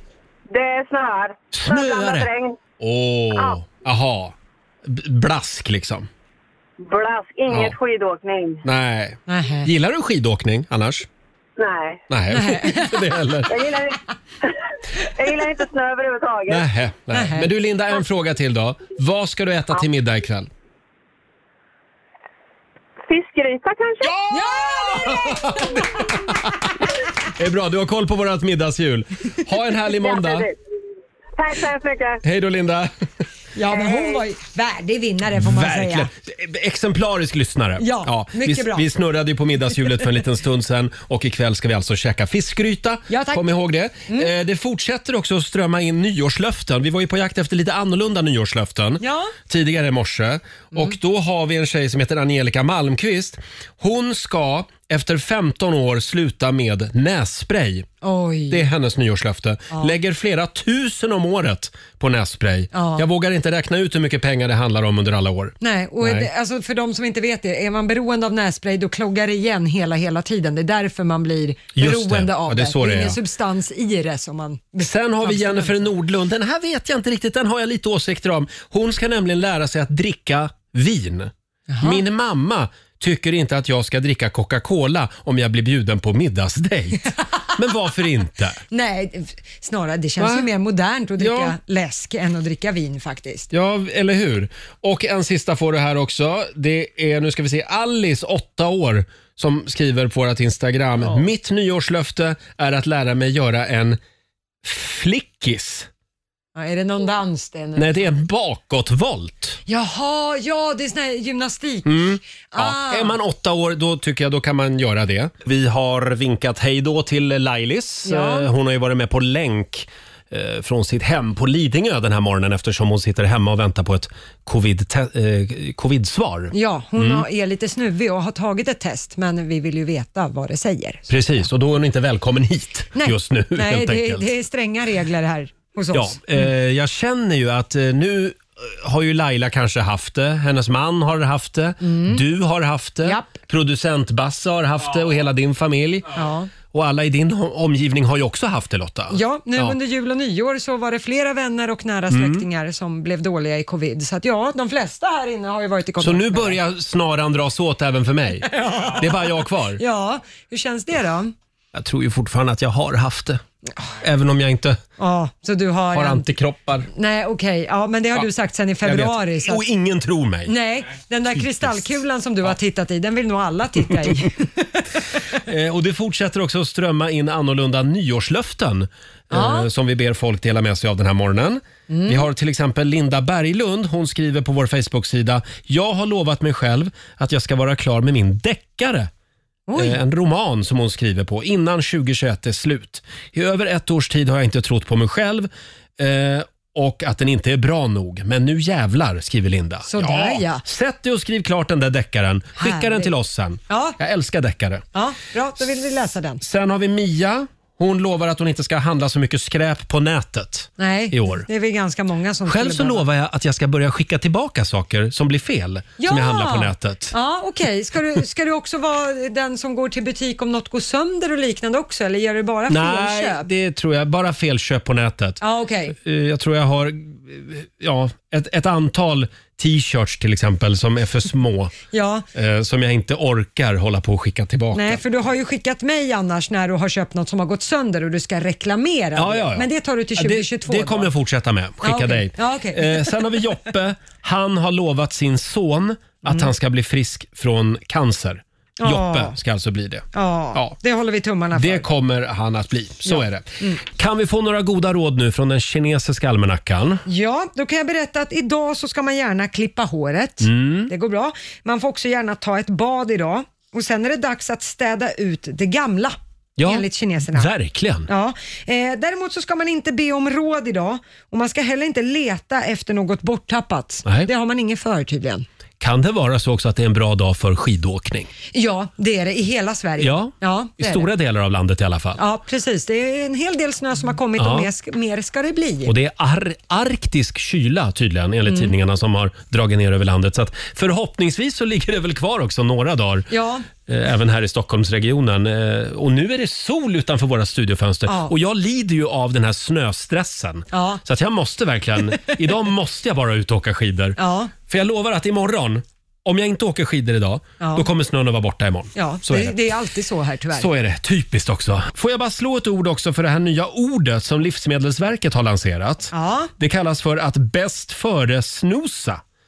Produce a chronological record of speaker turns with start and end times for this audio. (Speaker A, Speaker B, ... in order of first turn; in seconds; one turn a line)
Speaker A: 0.5-2.6
Speaker B: 1.5-6.1
Speaker A: 6.8-8.6
Speaker B: 7.5-7.8
Speaker B: 8.6-11.1
Speaker C: 9.3-9.7
Speaker A: 11.6-12.0
Speaker B: 12.1-13.6
Speaker C: 12.3-13.1
Speaker A: 13.5-14.0
Speaker A: 15.2-16.6
Speaker B: 16.5-20.5
Speaker C: 17.1-17.5
Speaker A: 23.1-24.2
Speaker C: 24.3-26.1
Speaker B: 24.9-26.7
Speaker B: 27.3-30.5
Speaker A: 29.9-30.5
Speaker A: 31.4-32.2
Speaker B: 32.2-32.9
Speaker C: 33.5-36.1
Speaker A: 33.7-34.2
Speaker B: 35.4-57.9
Speaker C: 37.8-38.9
Speaker C: 43.1-43.4
Speaker C: 44.1-44.3
Speaker C: 49.0-49.3
Speaker C: 58.0-58.6
Speaker B: 58.5-66.3
Speaker C: 62.7-63.0
Speaker C: 65.6-75.9
Speaker B: 71.7-73.2
Speaker B: 74.8-88.6
Speaker C: 81.7-82.0
Speaker C: 88.7-93.5
Speaker B: 90.2-90.5
Speaker B: 91.2-91.5
Speaker B: 93.5-104.0
Speaker B: 104.6-105.9
Speaker C: 106.5-108.1
Speaker B: 107.8-109.6
Speaker C: 109.7-113.2
Speaker B: 111.8-127.2
Speaker C: 118.0-118.5
Speaker C: 126.5-131.1
Speaker B: 131.1-134.2
Speaker C: 132.9-136.4
Speaker B: 135.9-146.1
Speaker C: 141.8-142.2
Speaker C: 143.0-143.3
Speaker C: 146.1-146.5
Speaker B: 146.7-149.8
Speaker C: 149.1-156.6
Speaker B: 152.1-152.4
Speaker B: 156.0-159.8
Speaker C: 158.5-161.3
Speaker B: 161.7-163.4
Speaker C: 163.7-163.9
Speaker B: 164.0-164.8
Speaker C: 165.0-166.3
Speaker B: 165.9-166.9
Speaker C: 166.9-169.6
Speaker B: 168.8-170.5
Speaker C: 170.4-174.9
Speaker B: 171.3-172.0
Speaker B: 175.3-189.1
Speaker C: 179.3-179.7
Speaker C: 181.9-182.3
Speaker C: 189.7-190.0
Speaker B: 189.7-204.8
Speaker C: 199.9-200.6
Speaker C: 202.6-203.1
Speaker C: 203.7-204.0
Speaker C: 204.9-206.4
Speaker B: 206.4-211.4
Speaker C: 210.8-213.1
Speaker B: 212.4-217.1
Speaker C: 216.0-223.4
Speaker B: 222.7-225.4
Speaker C: 225.4-225.9
Speaker B: 225.9-231.7
Speaker C: 231.9-232.3
Speaker B: 232.3-235.0
Speaker C: 234.7-241.1
Speaker B: 239.2-250.7
Speaker C: 241.8-243.2
Speaker C: 246.2-246.5
Speaker C: 248.8-249.4
Speaker C: 250.1-251.9
Speaker B: 251.5-257.0
Speaker C: 253.1-253.8
Speaker C: 257.1-267.5
Speaker B: 260.4-260.9
Speaker B: 266.6-268.1
Speaker C: 268.1-275.4
Speaker B: 275.8-278.3
Speaker C: 278.5-281.1
Speaker B: 280.0-282.2
Speaker C: 282.2-285.9
Speaker B: 284.4-284.7
Speaker B: 285.9-293.3
Speaker C: 288.4-288.7
Speaker C: 293.3-293.7
Speaker B: 293.9-309.6
Speaker C: 298.1-298.3
Speaker C: 300.7-301.0
Speaker C: 304.2-304.5
Speaker C: 307.6-307.9
Speaker C: 308.9-310.7
Speaker B: 310.5-319.2
Speaker C: 316.1-316.5